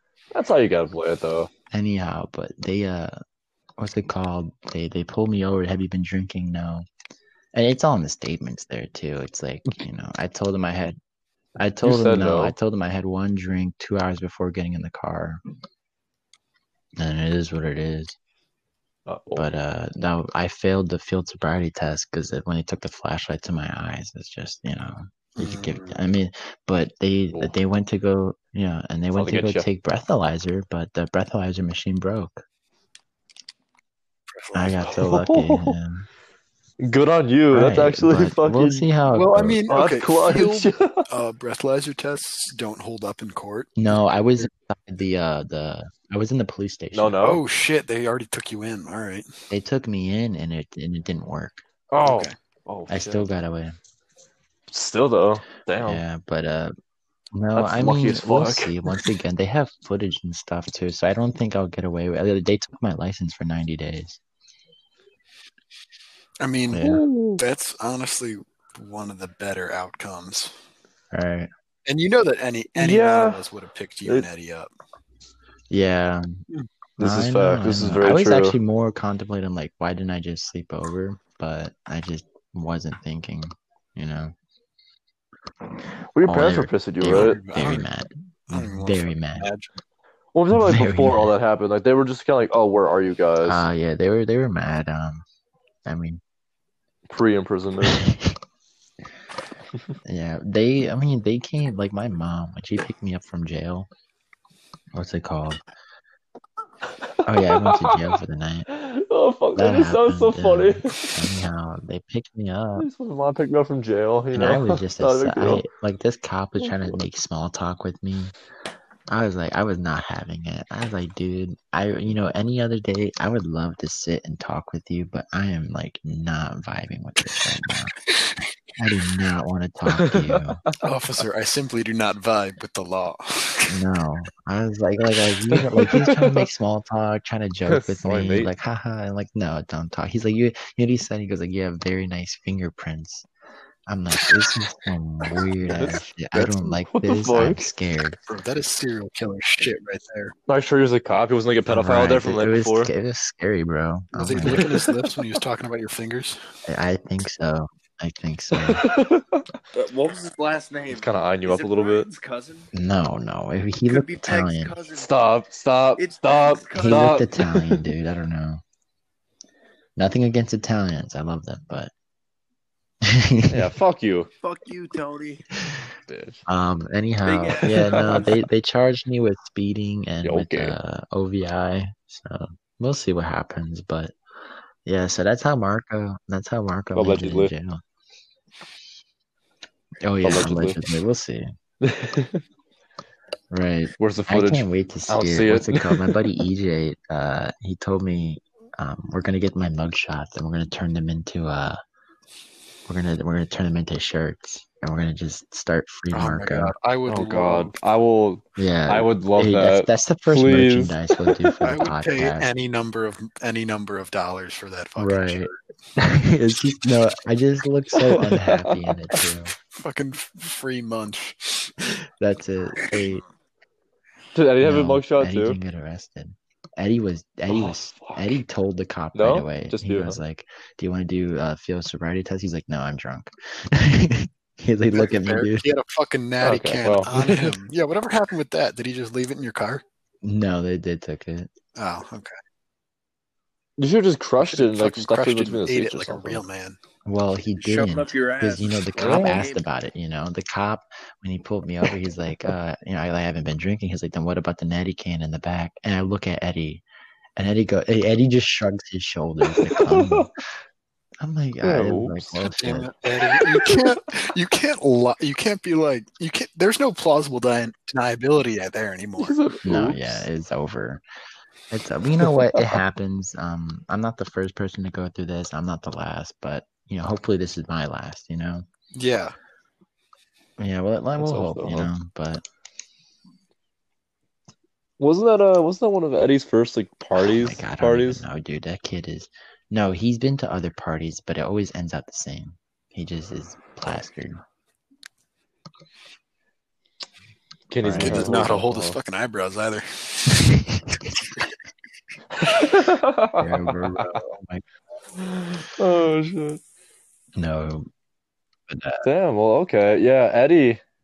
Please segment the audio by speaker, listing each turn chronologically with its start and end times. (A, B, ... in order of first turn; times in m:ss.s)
0:00.3-0:01.5 A
0:01.7-0:03.2 B
0:03.8-0:06.9 B
0:07.5-0:11.0 B
0:11.6-0:15.4 B
0:11.8-0:12.5 A
0:17.0-0:18.1 B
0:19.0-0:19.5 A
0:19.3-0:32.4 B
0:25.4-0:26.0 C
0:29.1-0:29.7 A
0:34.3-0:35.0 C
0:34.5-0:36.1 B
0:35.0-0:35.8 A
0:36.8-0:38.9 A
0:37.5-0:39.6 B
0:39.1-0:43.8 C
0:39.7-0:41.0 A
0:43.8-0:47.2 B
0:46.9-0:47.4 A
0:47.2-0:49.3 C
0:49.5-0:51.6 B
0:51.9-0:53.3 A
0:52.0-0:52.3 C
0:52.9-0:53.8 B
0:54.7-0:56.0 A
0:55.8-0:56.7 B
0:57.3-1:04.2 B
0:57.5-0:59.0 A
1:06.4-1:10.5 C
1:06.7-1:07.0 B
1:06.8-1:07.4 A
1:11.1-1:11.5 B
1:11.8-1:14.7 C
1:12.8-1:13.4 A
1:15.7-1:16.4 B
1:17.0-1:18.6 A
1:17.0-1:24.3 B
1:26.1-1:27.4 A
1:26.2-1:29.5 B
1:27.0-1:27.9 C
1:28.5-1:29.7 C
1:30.3-1:33.6 A
1:30.5-1:31.3 B
1:33.4-1:35.2 B
1:35.8-1:36.2 B
1:37.1-1:38.1 A
1:37.8-1:38.4 B
1:40.0-1:43.9 B
1:44.9-1:45.6 B
1:47.2-1:48.7 B
1:47.4-1:48.0 A
1:48.7-1:51.2 A
1:49.5-1:52.9 B
1:52.8-1:55.6 A
1:54.3-1:58.3 B
1:56.6-1:57.0 A
1:59.1-2:07.9 B
2:08.8-2:10.6 B
2:09.9-2:10.7 A
2:10.8-2:13.8 C
2:13.7-2:23.3 B
2:15.5-2:16.5 A
2:17.7-2:18.5 A
2:23.9-2:28.2 B
2:25.6-2:27.7 A
2:28.2-2:30.3 C
2:30.5-2:32.9 A
2:31.7-2:34.7 B
2:34.1-2:36.4 C
2:34.4-2:35.0 A
2:36.6-2:38.8 B
2:38.5-2:39.4 A
2:39.7-2:42.7 D
2:40.9-2:42.1 A
2:42.7-2:44.7 B
2:43.9-2:45.1 D
2:44.9-2:47.8 A
2:46.0-2:47.2 D
2:46.7-2:48.6 B
2:50.0-2:51.9 B
2:53.0-2:53.7 B
2:53.5-2:54.3 A
2:54.4-2:55.4 D
2:56.1-2:56.4 A
2:56.5-3:04.1 B
2:57.2-2:58.3 D
2:57.7-2:58.2 A
3:00.2-3:00.8 A
3:04.8-3:07.8 B
3:06.9-3:07.5 A
3:10.0-3:11.5 B
3:10.2-3:10.8 A
3:11.8-3:12.4 A
3:13.5-3:21.8 B
3:14.0-3:16.2 A
3:22.9-3:26.7 B
3:26.1-3:27.7 C
3:27.1-3:31.4 A
3:28.6-3:32.5 B
3:31.6-3:35.6 C
3:35.0-3:39.5 B
3:37.9-3:38.9 A
3:39.7-3:41.8 C
3:42.2-3:43.2 B
3:44.3-3:45.6 A
3:44.6-3:55.6 B
3:47.5-3:48.4 A
3:49.1-3:50.2 A
3:54.9-3:59.8 C
3:56.4-3:57.5 A
4:00.2-4:01.5 B
4:01.8-4:02.3 C
4:03.8-4:06.4 A
4:04.5-4:06.8 C
4:07.0-4:16.8 B
4:07.6-4:09.6 D
4:09.0-4:09.4 A
4:17.4-4:20.3 B
4:19.5-4:20.3 A
4:21.2-4:22.9 B
4:21.6-4:22.4 A
4:22.6-4:29.4 C
4:29.2-4:30.2 A
4:29.6-4:31.0 B
4:31.7-4:38.6 B
4:38.9-4:39.3 C
4:40.6-4:42.4 B
4:41.2-4:41.9 A
4:45.0-4:48.2 A
4:47.2-4:54.4 B
4:57.7-4:59.0 A
4:57.8-4:58.6 B
4:58.0-5:00.5 C
5:00.3-5:01.0 B
5:02.4-5:04.2 A
5:03.4-5:04.6 B
5:05.2-5:06.6 A
5:07.4-5:07.9 B
5:08.7-5:09.1 B
5:09.0-5:10.8 A